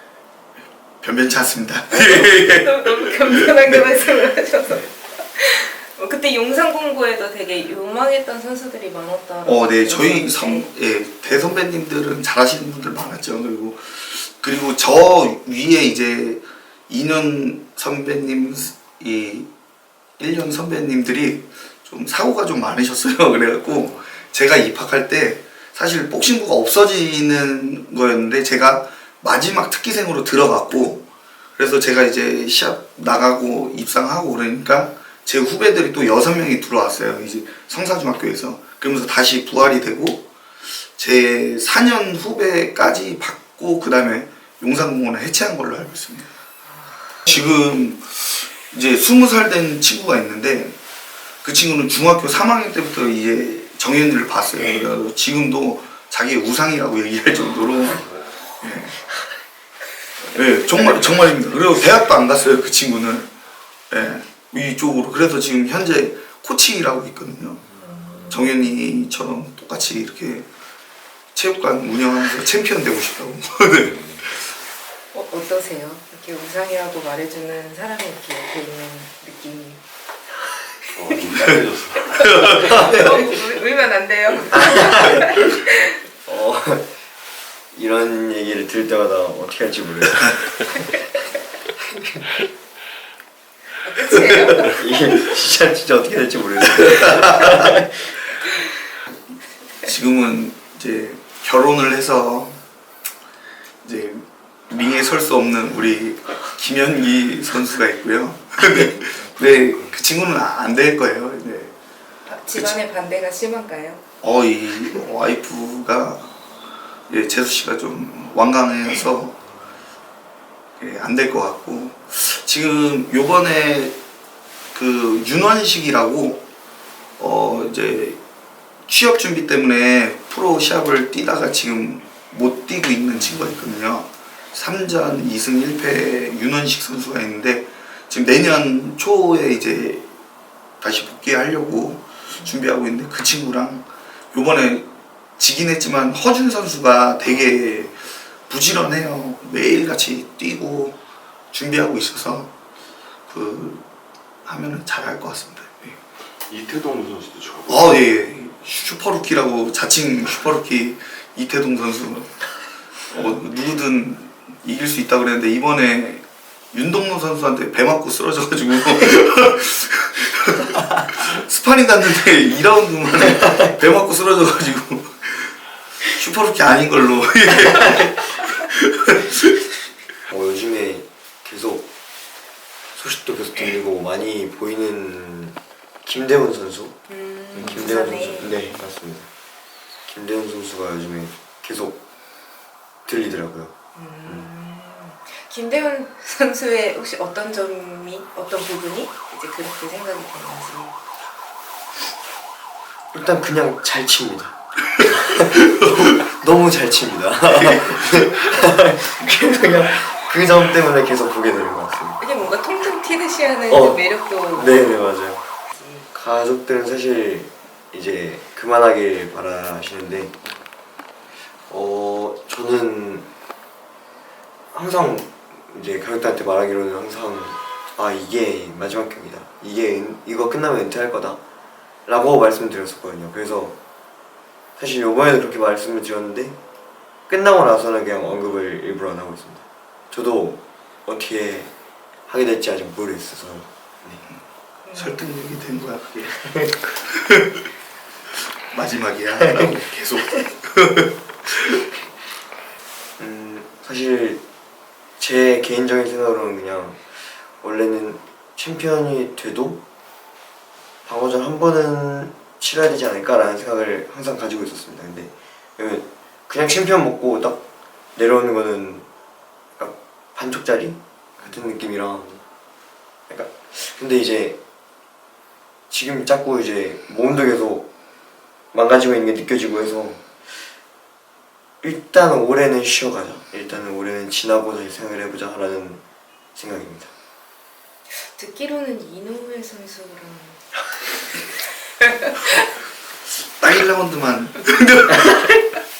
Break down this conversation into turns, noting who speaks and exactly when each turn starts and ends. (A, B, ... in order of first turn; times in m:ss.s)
0:01.0-0:03.8 A
0:01.9-0:10.7 B
0:09.5-0:19.5 A
0:20.2-0:31.0 A
0:31.6-0:40.2 A
0:41.0-0:46.3 A
0:46.7-0:47.3 B
0:47.3-0:50.8 A
0:51.4-0:58.9 A
1:00.3-1:03.3 A
1:03.9-1:07.6 A
1:07.8-1:08.5 B
1:08.3-1:10.5 A
1:11.4-1:14.4 A
1:15.1-1:19.8 B
1:21.0-1:23.0 C
1:21.1-1:21.5 B
1:22.0-1:26.0 B
1:22.2-1:22.9 A
1:24.5-1:25.4 D
1:26.3-1:26.9 D
1:27.7-1:30.6 D
1:31.8-1:32.3 D
1:33.8-1:34.8 B
1:34.4-1:37.9 D
1:36.7-1:37.8 A
1:39.8-1:42.6 A
1:43.8-1:51.7 A
1:52.3-1:54.0 B
1:54.2-1:56.4 A
1:57.1-1:59.4 A
2:00.8-2:04.0 A
2:04.7-2:06.4 A
2:07.2-2:08.2 A
2:08.9-2:20.1 A
2:20.8-2:28.0 A
2:28.5-2:31.0 A
2:31.5-2:32.5 A
2:33.3-2:33.8 A
2:34.4-2:36.0 A
2:36.5-2:38.0 C
2:37.7-2:42.5 A
2:43.1-2:55.6 A
2:56.1-2:59.6 A
3:00.3-3:01.9 D
3:03.0-3:07.0 D
3:07.1-3:08.6 B
3:07.6-3:09.3 D
3:07.6-3:08.7 C
3:10.1-3:12.0 D
3:13.1-3:13.7 D
3:14.0-3:20.9 B
3:23.1-3:32.2 D
3:25.6-3:26.0 A
3:27.5-3:28.3 A
3:32.2-3:34.8 B
3:33.7-3:34.0 D
3:34.5-3:35.4 D
3:35.8-3:36.0 B
3:36.1-3:40.3 D
3:41.7-3:43.3 D
3:44.7-3:51.4 D
3:52.1-3:53.8 D
3:54.8-3:56.6 D
3:57.3-4:01.7 D
4:02.3-4:04.2 D
4:04.9-4:05.2 B
4:05.0-4:06.3 A
4:06.3-4:06.8 D
4:07.1-4:07.6 A
4:08.7-4:11.8 A
4:09.4-4:09.7 D
4:13.2-4:14.4 D
4:15.2-4:17.0 D
4:17.6-4:19.8 D
4:21.1-4:27.6 D
4:28.2-4:29.1 D
4:29.8-4:32.3 D
4:33.3-4:34.6 D
4:35.9-4:37.9 D
4:38.7-4:40.2 D
4:41.8-4:46.0 D
4:46.6-4:47.1 D
4:48.4-4:50.6 B
4:52.0-4:52.6 B
4:53.6-4:55.6 A